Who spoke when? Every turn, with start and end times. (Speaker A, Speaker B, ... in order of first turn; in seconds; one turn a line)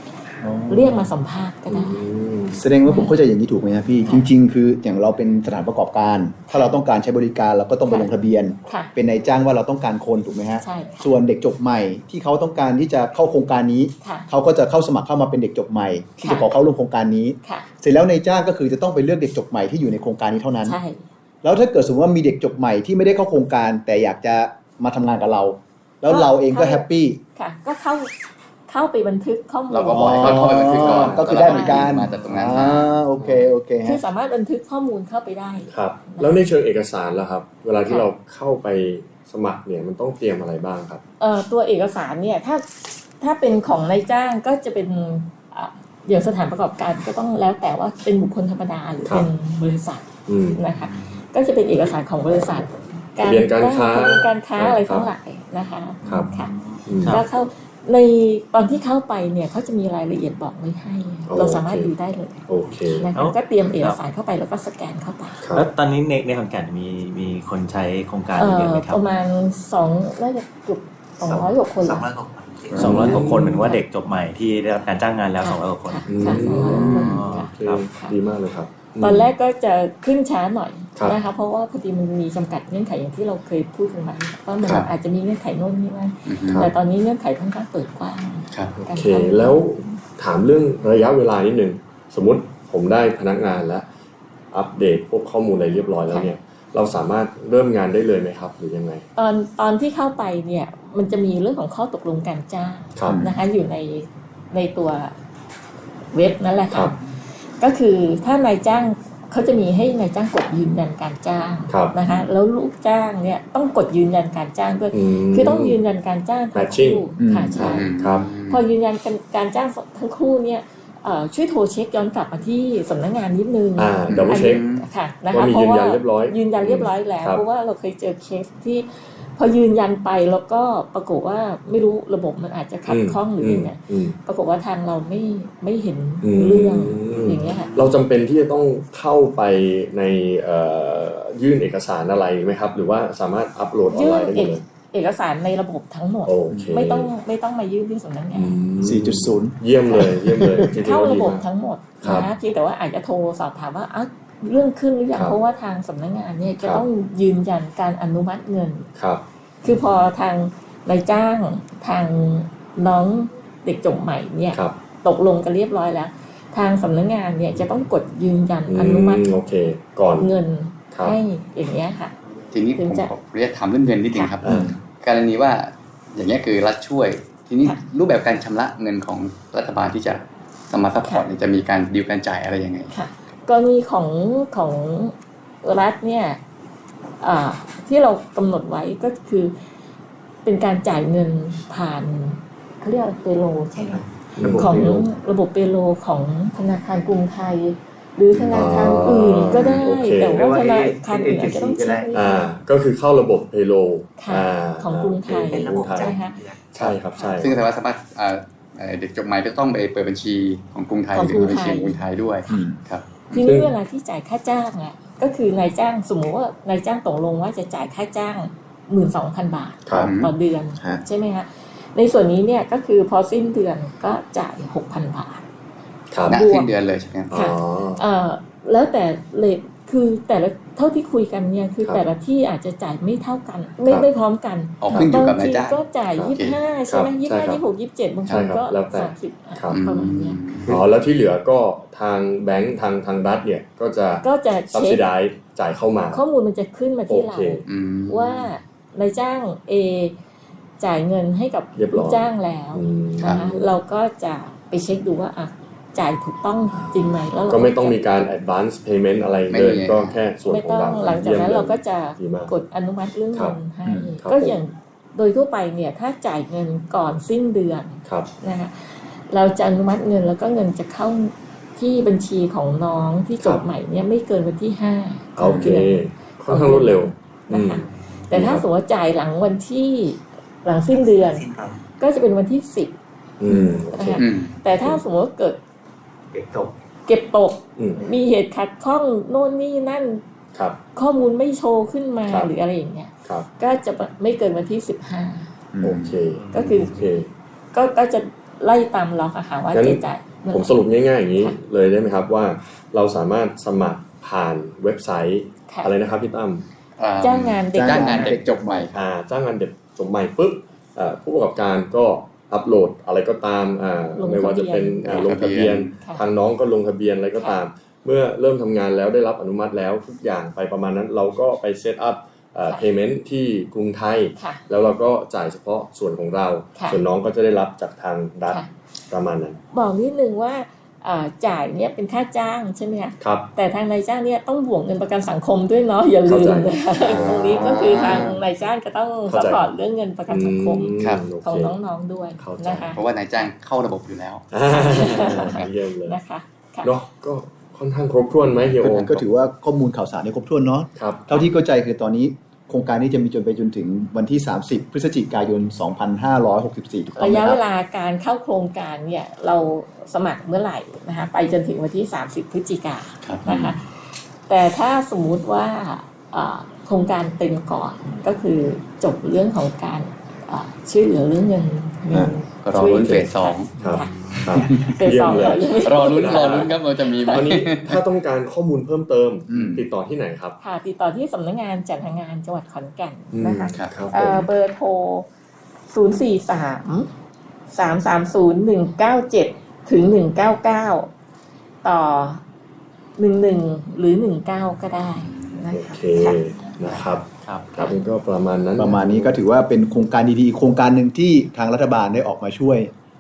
Speaker A: 0.4-1.1
Speaker B: 0.7-2.0
Speaker C: 1.7-2.6
Speaker A: 2.5-20.8
Speaker B: 2.8-3.2
Speaker B: 6.5-6.8
Speaker B: 10.6-11.2
Speaker B: 14.0-14.3
Speaker B: 16.2-16.5
Speaker B: 17.4-17.7
Speaker B: 20.6-21.0
Speaker A: 21.4-27.2
Speaker B: 26.1-28.1
Speaker B: 28.7-30.5
Speaker D: 29.7-32.9
Speaker A: 29.9-34.0
Speaker C: 30.5-32.6
Speaker B: 31.4-31.9
Speaker C: 33.1-33.5
Speaker B: 33.8-36.4
Speaker C: 35.7-41.0
Speaker B: 41.2-42.7
Speaker B: 43.2-56.5
Speaker C: 50.3-50.6
Speaker C: 53.2-55.1
Speaker C: 56.1-56.3
Speaker C: 56.9-57.2
Speaker B: 57.0-65.4
Speaker C: 61.3-61.9
Speaker C: 62.5-63.1
Speaker E: 63.1-64.0
Speaker C: 65.4-65.7
Speaker E: 65.5-69.0
Speaker B: 68.4-72.1
Speaker F: 71.2-72.8
Speaker E: 72.7-77.9
Speaker C: 72.8-73.6
Speaker B: 72.8-73.8
Speaker B: 75.4-78.2
Speaker C: 76.1-79.3
Speaker D: 76.6-77.2
Speaker B: 79.0-90.0
Speaker D: 84.6-84.9
Speaker D: 86.3-86.7
Speaker D: 88.5-88.7
Speaker C: 88.8-93.8
Speaker C: 94.5-99.0
Speaker B: 99.2-105.1
Speaker A: 103.1-103.4
Speaker B: 106.1-107.0
Speaker B: 107.6-118.0
Speaker C: 111.7-111.9
Speaker C: 114.9-115.8
Speaker C: 116.5-118.3
Speaker A: 117.2-117.7
Speaker D: 117.6-118.6
Speaker B: 118.5-137.7
Speaker C: 123.8-124.6
Speaker D: 124.1-124.9
Speaker C: 125.3-127.4
Speaker C: 132.9-134.2
Speaker C: 136.2-144.6
Speaker B: 143.9-148.6
Speaker C: 146.2-147.1
Speaker A: 146.5-146.8
Speaker C: 148.3-151.4
Speaker A: 148.8-150.7
Speaker B: 150.8-158.9
Speaker C: 152.0-152.3
Speaker C: 156.6-156.9
Speaker C: 159.0-159.8
Speaker B: 159.6-169.3
Speaker C: 168.7-170.3
Speaker B: 170.2-172.1
Speaker C: 170.9-171.2
Speaker D: 172.5-182.9
Speaker B: 172.8-173.1
Speaker C: 174.4-174.7
Speaker A: 174.4-174.7
Speaker B: 182.9-186.4
Speaker B: 187.2-189.5
Speaker B: 190.4-202.5
Speaker F: 193.8-195.0
Speaker C: 194.3-195.0
Speaker C: 198.3-200.4
Speaker D: 199.5-199.9
Speaker F: 200.2-202.2
Speaker C: 202.1-206.2
Speaker B: 204.2-206.4
Speaker F: 205.4-206.9
Speaker C: 206.7-207.5
Speaker B: 207.1-207.5
Speaker D: 207.4-213.5
Speaker B: 211.1-212.0
Speaker A: 212.5-212.8
Speaker B: 213.3-225.4
Speaker C: 213.3-213.7
Speaker C: 219.8-220.1
Speaker D: 219.9-220.3
Speaker C: 226.1-226.4
Speaker D: 226.2-227.4
Speaker B: 226.3-226.7
Speaker C: 227.3-228.0
Speaker B: 227.3-240.4
Speaker D: 234.8-235.8
Speaker C: 236.9-237.6
Speaker C: 238.3-239.8
Speaker D: 239.7-240.8
Speaker C: 240.7-246.2
Speaker B: 244.2-245.0
Speaker B: 246.1-250.2
Speaker C: 247.1-247.6
Speaker D: 247.6-248.5
Speaker B: 250.8-258.0
Speaker C: 251.8-253.6
Speaker D: 253.2-253.6
Speaker C: 256.7-262.5
Speaker D: 259.5-260.2
Speaker B: 260.4-281.4
Speaker A: 263.9-264.1
Speaker C: 264.2-264.6
Speaker C: 273.4-273.6
Speaker C: 275.4-278.6
Speaker F: 280.9-281.8
Speaker B: 282.0-282.9
Speaker C: 283.4-284.2
Speaker A: 283.5-283.8
Speaker B: 283.9-285.6
Speaker D: 284.2-284.6
Speaker C: 284.8-285.0
Speaker F: 286.3-286.7
Speaker B: 287.1-290.2
Speaker C: 287.8-288.0
Speaker B: 290.9-295.5
Speaker A: 295.7-296.2
Speaker C: 295.8-297.3
Speaker E: 296.4-296.9
Speaker B: 296.5-296.9
Speaker D: 296.5-296.9
Speaker B: 297.7-300.8
Speaker C: 299.7-306.7
Speaker B: 305.7-305.9
Speaker D: 307.0-308.9
Speaker B: 307.2-308.4
Speaker A: 307.7-308.9
Speaker C: 308.9-329.6
Speaker B: 314.1-315.4
Speaker D: 315.0-316.0
Speaker B: 324.4-324.6
Speaker B: 329.7-343.0
Speaker C: 333.2-333.5
Speaker C: 336.2-338.3
Speaker D: 337.2-338.4
Speaker C: 339.3-339.6
Speaker C: 340.3-341.8
Speaker D: 341.0-341.3
Speaker C: 342.4-343.0
Speaker D: 342.9-344.4
Speaker C: 344.5-346.2
Speaker B: 344.7-346.9
Speaker C: 346.8-349.2
Speaker D: 348.8-349.1
Speaker A: 348.8-357.6
Speaker C: 351.0-351.3
Speaker B: 357.1-376.7
Speaker D: 363.2-363.7
Speaker D: 372.6-373.7
Speaker C: 373.8-380.6
Speaker E: 373.9-374.2
Speaker D: 374.6-378.0
Speaker D: 379.5-379.9
Speaker B: 380.6-385.3
Speaker C: 383.3-384.5
Speaker D: 383.7-384.0
Speaker B: 385.9-387.1
Speaker B: 387.7-391.1
Speaker B: 391.8-392.4
Speaker B: 393.2-397.2
Speaker C: 395.7-399.4
Speaker E: 397.4-397.8
Speaker A: 398.8-402.9